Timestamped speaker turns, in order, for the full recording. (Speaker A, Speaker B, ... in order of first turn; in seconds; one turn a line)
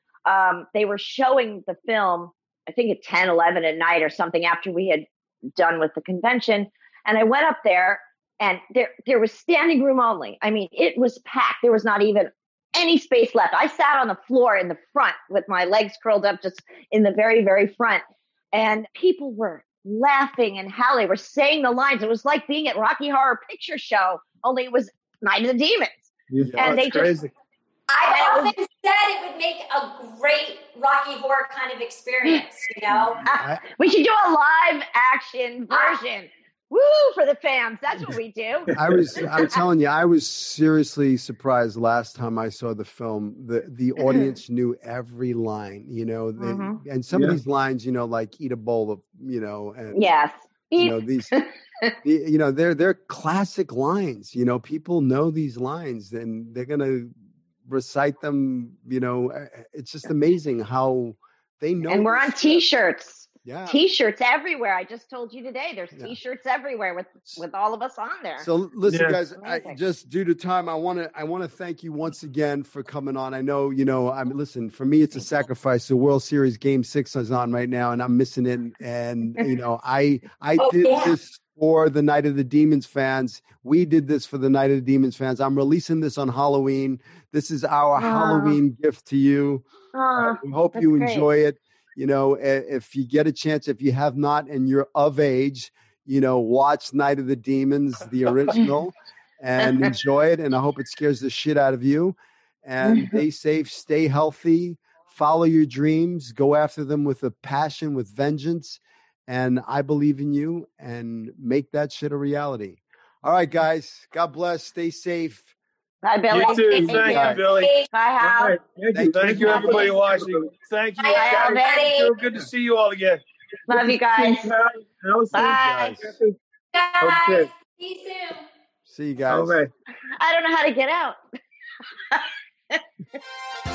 Speaker A: 0.2-26.1
Speaker B: 26.3-26.6
Speaker C: 26.4-26.8
Speaker A: 26.6-27.2
Speaker D: 26.6-27.3
Speaker E: 27.9-33.2
Speaker A: 28.1-28.5
Speaker C: 32.9-33.7
Speaker A: 33.2-38.7
Speaker B: 38.7-39.1
Speaker C: 38.7-50.0
Speaker A: 39.3-39.5
Speaker A: 46.4-46.8
Speaker B: 47.1-47.4
Speaker A: 49.9-51.9
Speaker C: 50.8-51.3
Speaker C: 52.0-57.1
Speaker C: 57.6-62.6
Speaker A: 61.9-68.5
Speaker C: 63.4-63.8
Speaker C: 68.4-115.5
Speaker D: 68.9-69.2
Speaker A: 69.4-69.8
Speaker E: 80.6-81.2
Speaker A: 88.0-88.6
Speaker A: 89.9-91.3
Speaker A: 99.6-99.9
Speaker A: 102.8-103.2
Speaker A: 116.0-118.6
Speaker D: 116.3-117.7
Speaker E: 116.5-117.9
Speaker C: 116.9-117.4
Speaker B: 118.2-120.5
Speaker C: 118.9-119.7
Speaker D: 119.1-123.2
Speaker E: 121.0-122.2
Speaker A: 121.1-121.8
Speaker A: 123.7-124.5
Speaker B: 123.7-126.4
Speaker A: 125.3-125.9
Speaker C: 125.3-126.1
Speaker E: 126.7-128.4
Speaker B: 127.0-127.5
Speaker C: 128.8-129.6
Speaker B: 129.3-129.7
Speaker A: 130.2-131.2
Speaker A: 132.1-132.8